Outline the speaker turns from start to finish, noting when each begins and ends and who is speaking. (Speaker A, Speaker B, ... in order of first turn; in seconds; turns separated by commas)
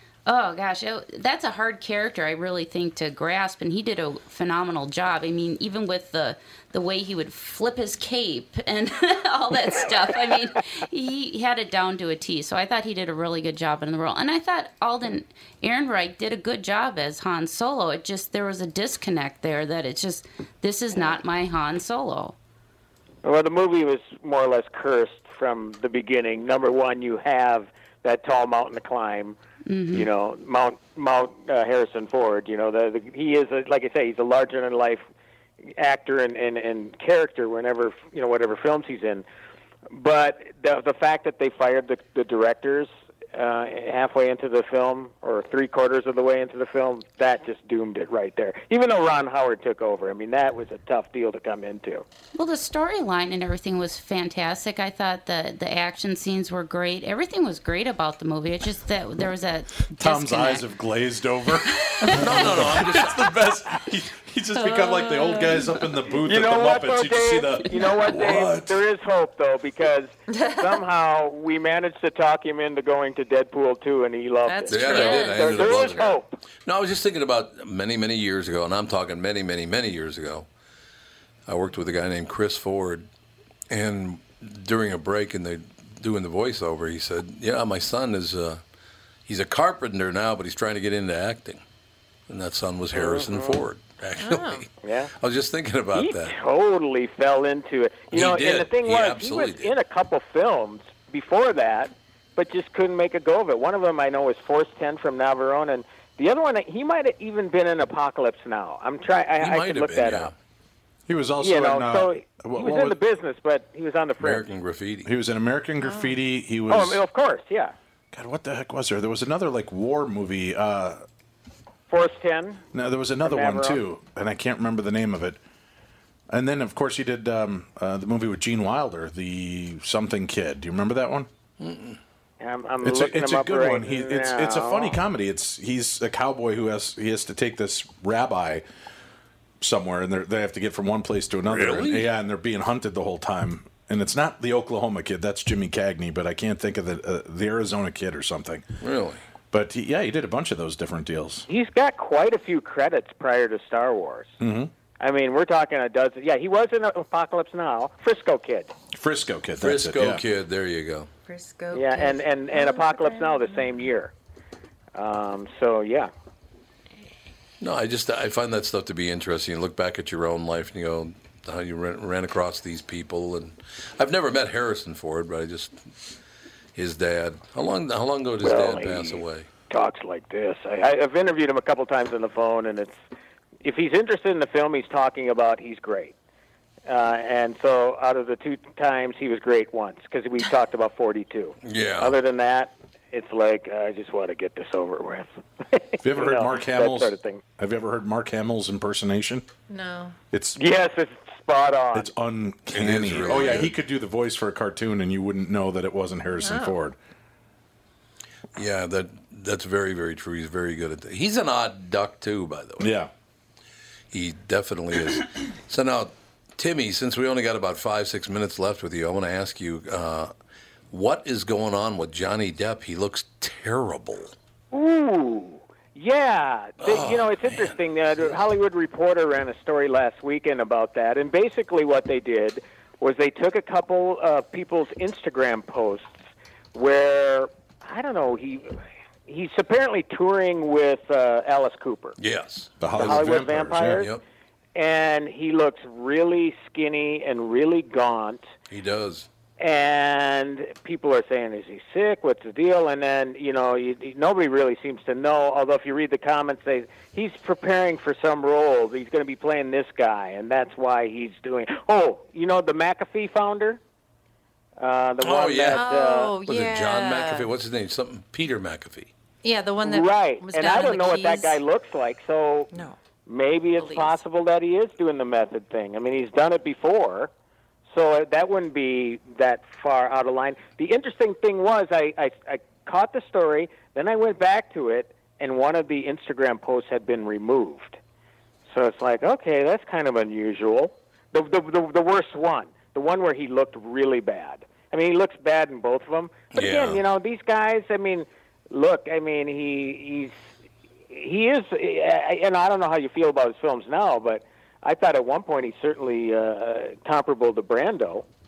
Speaker A: 0.2-22.4, Speaker B: 23.2-29.4, Speaker A: 29.6-30.1, Speaker B: 29.9-35.0, Speaker B: 35.8-39.2, Speaker B: 39.9-52.0, Speaker A: 52.4-60.6, Speaker C: 60.0-68.8, Speaker A: 61.7-62.2, Speaker D: 62.1-63.5, Speaker A: 64.6-65.8, Speaker B: 66.2-76.3, Speaker E: 74.5-76.2, Speaker D: 74.7-76.1, Speaker D: 76.7-80.5, Speaker D: 81.5-83.1, Speaker D: 83.7-88.6, Speaker D: 89.2-91.6, Speaker D: 92.3-94.7, Speaker B: 92.9-93.6, Speaker E: 94.2-94.7, Speaker B: 94.8-95.1, Speaker D: 95.2-96.3, Speaker B: 96.0-110.3, Speaker D: 98.1-99.7, Speaker D: 109.4-110.3, Speaker C: 111.1-113.0, Speaker B: 111.4-114.5, Speaker D: 114.2-115.1, Speaker C: 115.0-117.0, Speaker E: 115.8-116.2, Speaker B: 116.7-117.7, Speaker C: 118.1-121.0, Speaker B: 121.9-122.6, Speaker C: 122.7-125.4, Speaker B: 123.2-123.8, Speaker C: 126.3-131.3, Speaker D: 131.6-132.0, Speaker B: 132.4-135.0, Speaker C: 132.8-138.6, Speaker C: 139.6-148.6, Speaker D: 141.5-142.1, Speaker D: 148.8-149.2, Speaker C: 149.5-151.4, Speaker B: 151.5-154.4, Speaker C: 154.4-154.7, Speaker B: 155.0-158.7, Speaker C: 158.9-160.2, Speaker D: 159.6-161.1, Speaker E: 161.2-163.6, Speaker B: 161.7-164.1, Speaker B: 164.9-166.1, Speaker D: 167.6-175.8, Speaker D: 176.8-179.5, Speaker B: 178.4-182.9, Speaker B: 183.6-186.1, Speaker B: 186.9-197.4, Speaker D: 191.6-192.2, Speaker C: 196.0-199.4, Speaker E: 199.7-200.2, Speaker C: 200.3-200.6, Speaker B: 200.6-202.1, Speaker C: 201.9-207.0, Speaker D: 202.7-203.8, Speaker E: 206.4-206.8, Speaker D: 208.5-212.9, Speaker C: 212.8-213.1, Speaker D: 214.1-220.3, Speaker D: 220.9-224.3, Speaker B: 224.7-236.2, Speaker D: 226.8-227.8, Speaker B: 236.7-238.8, Speaker B: 239.3-242.2, Speaker D: 242.2-244.2, Speaker C: 242.8-244.1, Speaker B: 243.0-244.1, Speaker B: 244.8-248.4, Speaker D: 248.7-249.3, Speaker B: 249.6-263.8, Speaker B: 264.8-266.3, Speaker D: 265.2-265.9, Speaker E: 265.7-267.5, Speaker D: 266.5-269.1, Speaker E: 269.4-271.6, Speaker B: 269.8-272.7, Speaker E: 272.7-273.0, Speaker B: 273.3-277.3, Speaker E: 273.8-274.1, Speaker B: 277.9-288.0, Speaker B: 288.7-300.3, Speaker D: 296.5-297.0, Speaker B: 301.1-308.2